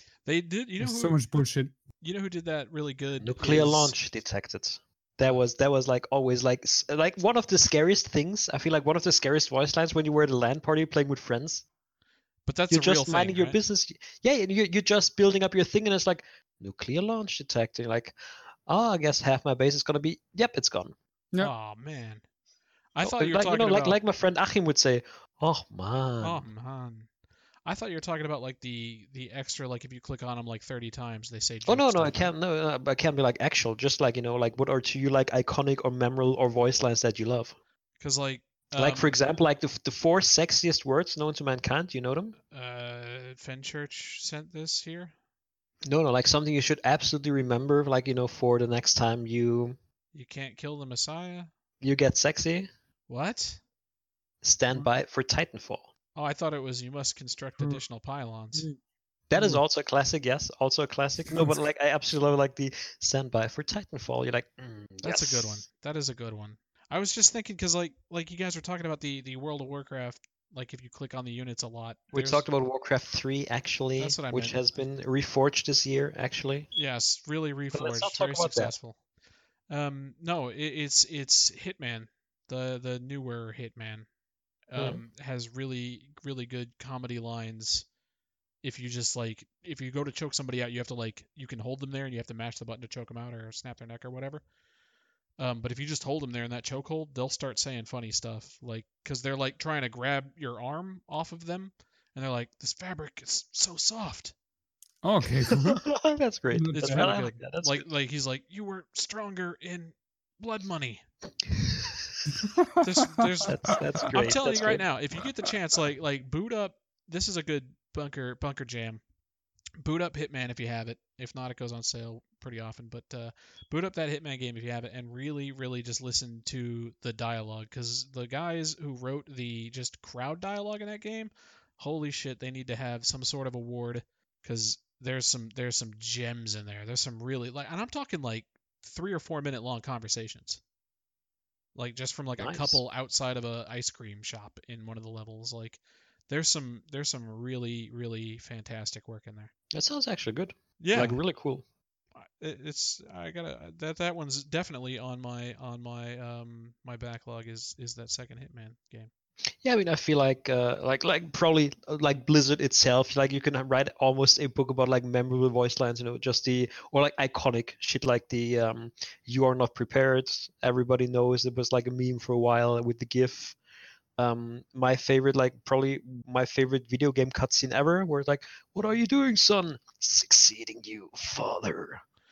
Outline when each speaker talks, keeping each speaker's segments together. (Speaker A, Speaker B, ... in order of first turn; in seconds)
Speaker A: 0.2-1.2, 2.0-4.0, 12.5-13.6, 21.4-22.2, 22.9-24.0, 26.2-27.1, 27.6-32.3, 38.0-39.1, 42.5-45.1, 50.1-51.5, 53.1-53.6, 56.1-58.7, 65.0-72.5, 74.0-74.6, 76.7-79.0, 79.7-84.1, 84.7-87.9, 88.6-94.5, 95.4-104.3, 106.8-111.0, 112.8-119.0, 119.8-140.6, 141.8-149.5, 150.8-151.2, 152.2-159.1
Speaker B: 0.8-1.8, 57.6-57.8, 61.3-61.6, 105.0-105.9, 106.5-107.2, 112.6-112.8
Speaker C: 3.2-11.7, 12.7-18.1, 18.7-20.9, 23.0-26.5, 31.7-37.6, 38.8-42.4, 45.9-49.8, 51.8-52.7, 54.4-55.9, 59.3-65.6, 72.1-76.7, 77.7-78.8, 84.8-85.0, 105.5-107.9, 111.6-111.9, 113.5-114.9, 142.4-142.8, 149.7-151.6, 159.6-173.6, 174.2-182.0